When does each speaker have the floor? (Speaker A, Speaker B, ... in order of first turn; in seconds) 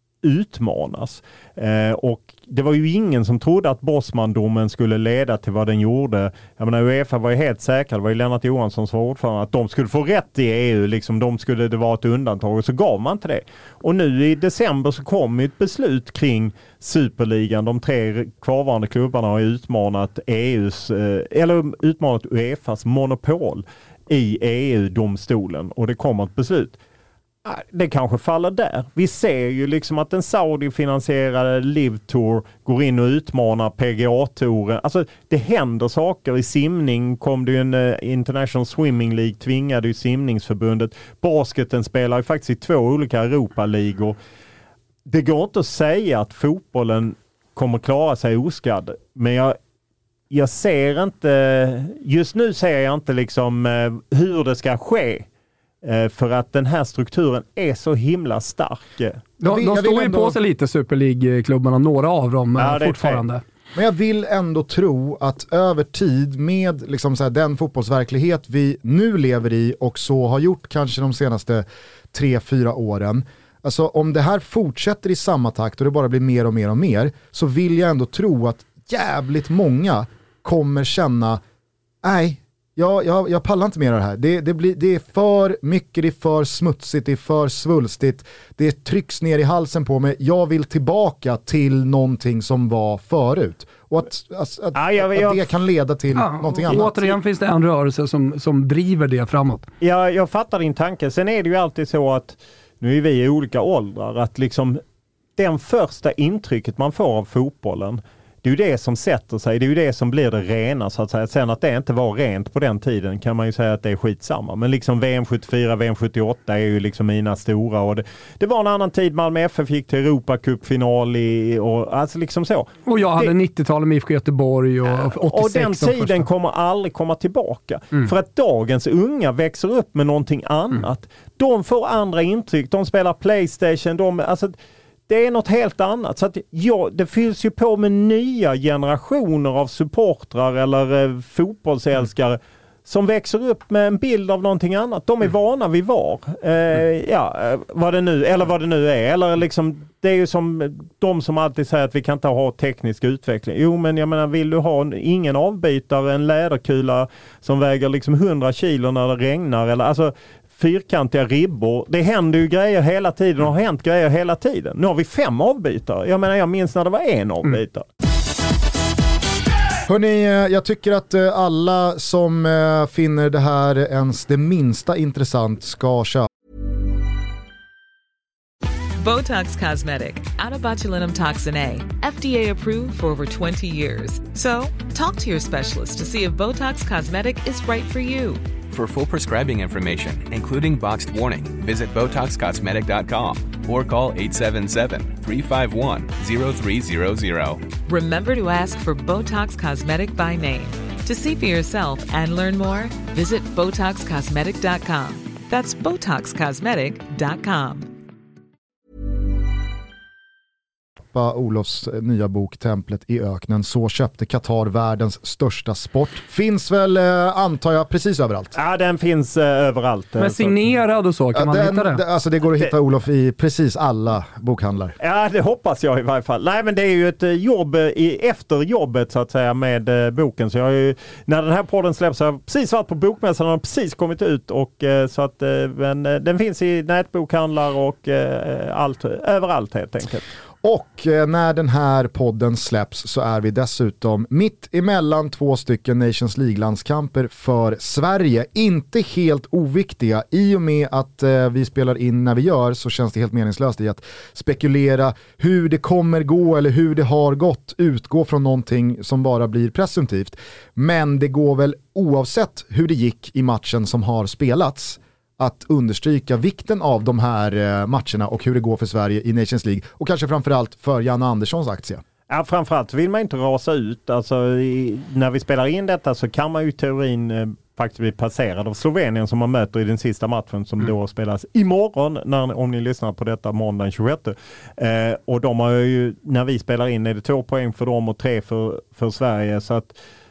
Speaker A: 0.2-26.8, 27.4-44.1, 45.0-49.6, 50.3-55.2, 55.8-59.2, 62.6-63.2, 94.7-95.5, 99.8-104.8, 105.4-123.3, 124.8-134.6, 135.1-167.8, 218.5-220.5, 225.0-240.2, 272.3-289.9
Speaker B: 59.4-63.4, 96.2-99.7, 122.8-126.2, 220.2-222.0
Speaker C: 59.4-60.4, 63.7-81.4, 82.0-97.0, 169.9-176.3, 211.1-218.5, 221.3-224.9, 240.6-272.0
Speaker D: 179.0-188.4, 197.8-207.9
Speaker E: 188.7-197.7